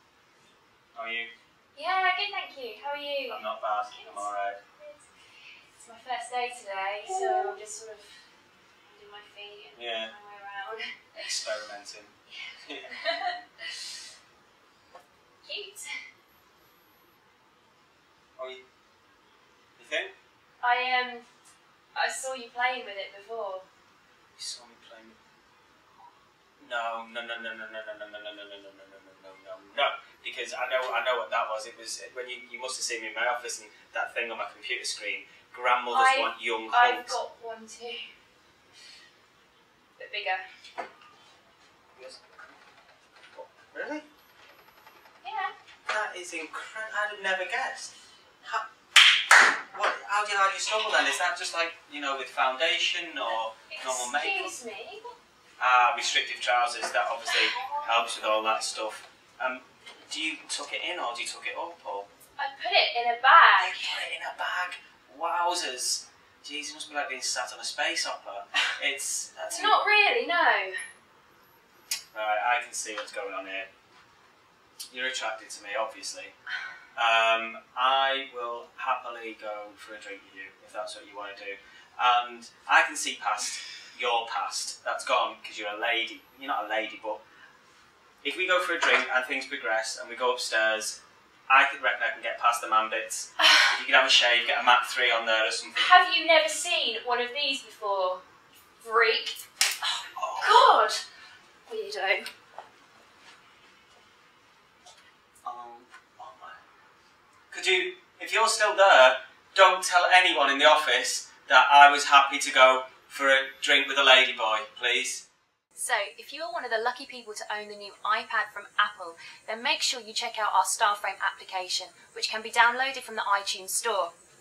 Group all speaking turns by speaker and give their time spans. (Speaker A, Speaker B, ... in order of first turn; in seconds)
Speaker A: 0.9-1.3, 3.3-4.6, 9.7-10.1, 11.2-12.1, 18.4-18.6, 19.8-20.1, 24.4-25.2, 26.6-37.2, 42.0-42.2, 43.3-44.0, 45.9-47.9, 49.3-54.5, 55.6-62.1, 63.6-69.8, 72.1-73.7, 74.9-76.3, 77.0-87.2, 88.2-95.9, 100.2-100.7, 105.4-106.6, 107.5-115.2
Speaker B: 1.7-5.0, 5.8-8.2, 8.8-11.2, 12.9-13.3, 15.4-15.9, 20.6-21.2, 21.9-23.6, 35.9-38.0, 40.0-40.4, 45.2-45.5, 53.7-55.1, 62.4-64.0, 69.5-70.7, 95.8-98.2, 98.8-101.0, 101.7-102.3, 115.8-124.1